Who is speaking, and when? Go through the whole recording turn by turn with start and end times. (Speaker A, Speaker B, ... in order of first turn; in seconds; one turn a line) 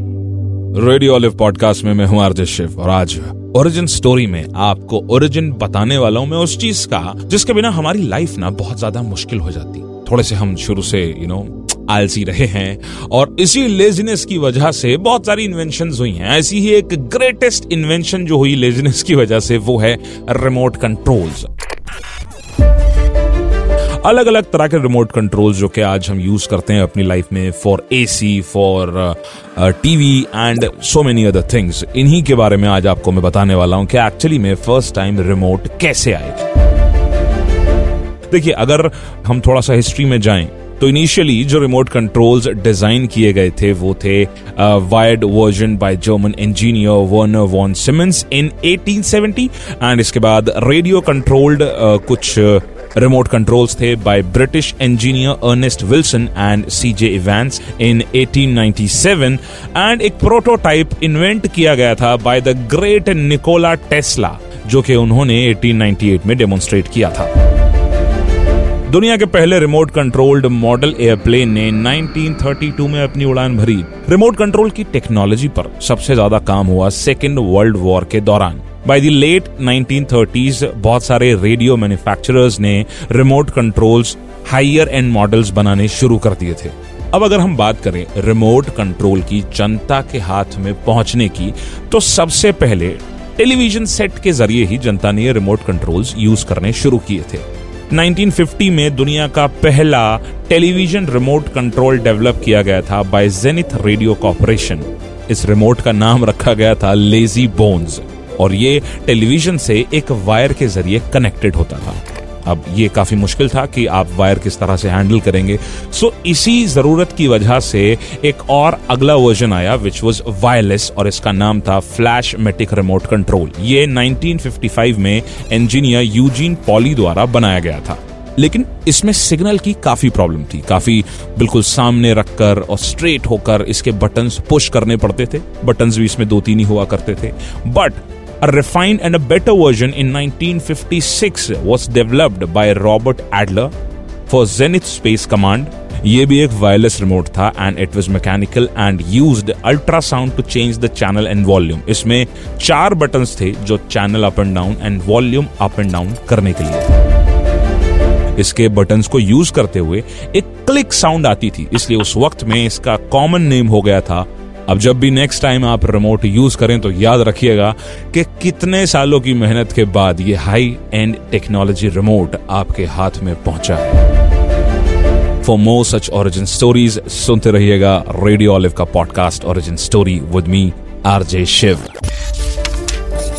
Speaker A: 0.7-21.5
Speaker A: 24.0-36.4
Speaker A: 38.3-67.3
Speaker A: 68.9-143.7
Speaker A: 144.3-156.9
Speaker A: 158.3-174.0
Speaker A: 175.4-181.9